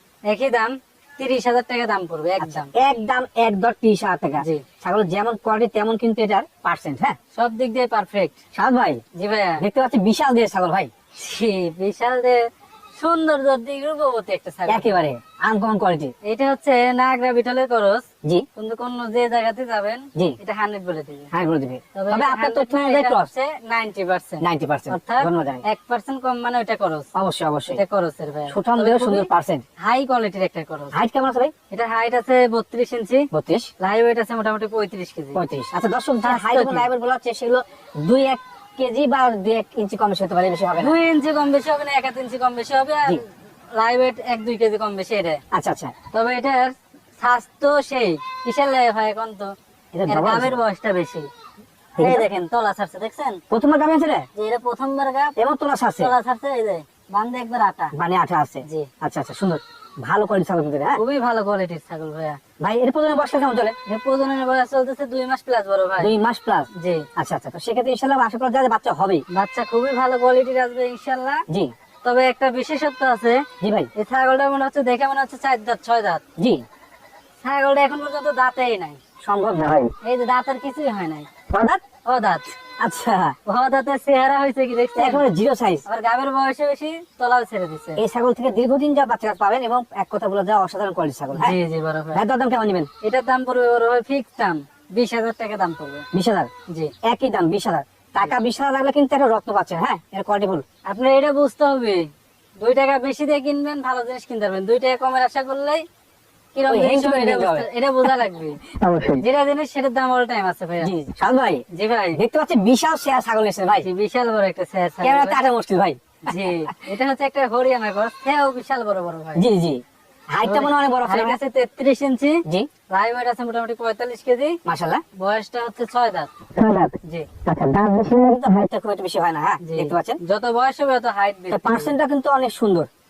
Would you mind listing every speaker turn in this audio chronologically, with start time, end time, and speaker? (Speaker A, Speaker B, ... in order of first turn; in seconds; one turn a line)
Speaker A: 0.2-2.7
Speaker B: 2.4-7.2
Speaker A: 4.4-4.6
Speaker A: 7.3-8.4
Speaker B: 8.5-9.0
Speaker A: 9.1-9.6
Speaker B: 9.6-10.9
Speaker A: 11.2-14.9
Speaker B: 14.7-16.1
Speaker A: 16.2-18.0
Speaker A: 18.6-21.3
Speaker B: 21.3-23.3
Speaker A: 21.9-27.1
Speaker B: 24.4-25.6
Speaker B: 27.1-27.8
Speaker A: 27.7-30.9
Speaker B: 28.5-29.6
Speaker B: 30.9-31.5
Speaker A: 31.7-33.3
Speaker B: 33.3-33.7
Speaker A: 33.8-35.4
Speaker B: 35.3-41.0
Speaker A: 36.2-36.9
Speaker A: 40.8-45.4
Speaker B: 45.5-45.9
Speaker A: 46.1-49.5
Speaker B: 49.9-50.6
Speaker A: 50.1-51.3
Speaker B: 52.0-52.3
Speaker A: 52.0-53.4
Speaker B: 53.5-54.3
Speaker A: 54.3-55.4
Speaker B: 55.4-56.1
Speaker A: 56.0-57.9
Speaker B: 57.9-61.0
Speaker A: 60.9-62.4
Speaker B: 62.6-63.8
Speaker A: 63.9-66.1
Speaker B: 66.0-69.2
Speaker A: 66.7-67.1
Speaker A: 69.3-71.4
Speaker A: 72.0-76.2
Speaker B: 73.6-73.9
Speaker B: 76.4-76.6
Speaker A: 77.4-79.0
Speaker B: 79.2-79.9
Speaker A: 80.0-81.3
Speaker B: 81.5-81.8
Speaker A: 82.0-82.5
Speaker B: 82.8-83.3
Speaker A: 83.5-85.2
Speaker B: 85.0-85.8
Speaker A: 85.8-88.0
Speaker B: 88.0-91.6
Speaker A: 91.3-92.2
Speaker B: 92.1-92.9
Speaker A: 93.0-96.1
Speaker B: 96.1-96.5
Speaker A: 96.7-96.9
Speaker B: 97.0-100.6
Speaker A: 100.8-105.8
Speaker A: 106.5-108.6
Speaker B: 106.7-107.7
Speaker B: 108.7-109.2
Speaker A: 109.2-110.9
Speaker B: 110.8-111.6
Speaker A: 111.7-112.2
Speaker B: 112.1-113.9
Speaker A: 113.7-115.4
Speaker B: 115.0-116.7
Speaker A: 116.2-119.4
Speaker B: 119.3-121.4
Speaker A: 120.4-124.6
Speaker B: 124.6-125.0
Speaker A: 125.2-126.3
Speaker B: 126.5-130.2
Speaker A: 127.0-127.3
Speaker A: 129.6-131.9
Speaker B: 131.5-132.9